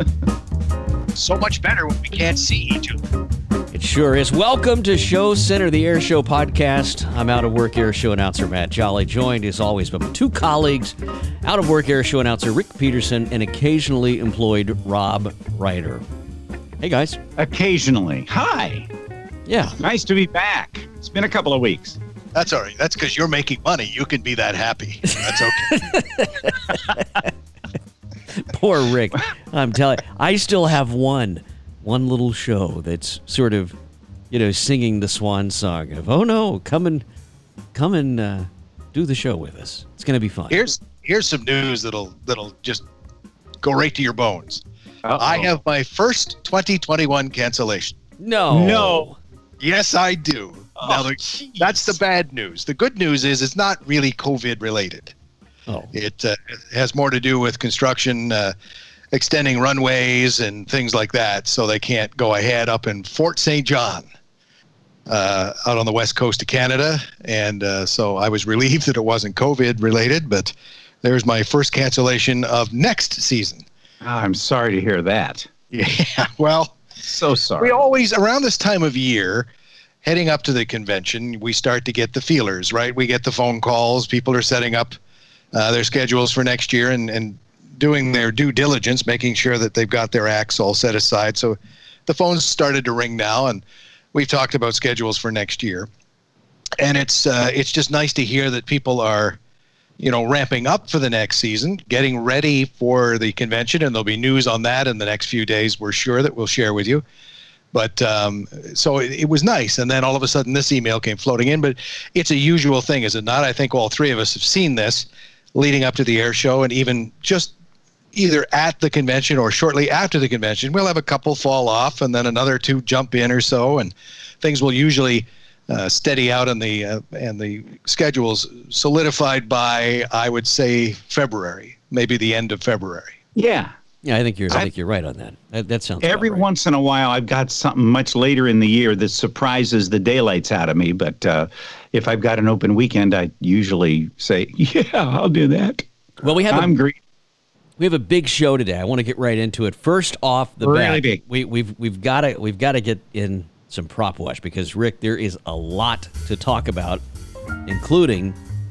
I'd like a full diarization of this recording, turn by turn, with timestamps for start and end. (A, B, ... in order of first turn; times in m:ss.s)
0:01.1-0:03.0 A
0:03.7-0:16.0 B
0:16.8-0:17.2 B
0:17.4-0:18.9 C
0:19.4-0:19.8 B
0:19.8-0:22.0 C
0:22.3-0:25.8 A
0:25.2-0:27.3 B
0:28.3-0:33.7 B
0:34.3-0:37.0 B
0:37.7-0:40.6 B
0:40.5-0:42.8 A
0:43.6-0:44.6 A
0:45.0-0:45.5 C
0:45.2-0:48.0 A
0:48.2-0:49.2 B
0:48.5-0:49.1 C
0:49.6-0:55.1 A
0:50.8-0:52.0 C
0:55.7-0:55.9 B
0:55.9-0:58.5 A
0:59.1-1:04.0 A
1:05.1-1:10.5 A
1:11.0-1:13.6 A
1:14.0-1:15.5 C
1:15.7-1:16.8 A
1:17.0-1:17.8 C
1:17.6-1:19.5 A
1:20.0-1:25.0 A
1:25.5-1:33.6 A
1:34.1-1:35.9 A
1:36.8-1:39.4 A
1:40.0-1:47.0 A
1:47.7-1:57.5 A
1:58.1-2:13.2 A
2:13.3-2:13.7 C
2:14.0-2:16.4 B
2:16.0-2:25.9 C
2:26.2-2:26.7 B
2:26.5-2:27.0 C
2:27.8-2:37.0 B
2:30.6-2:31.2 C
2:37.7-2:38.4 B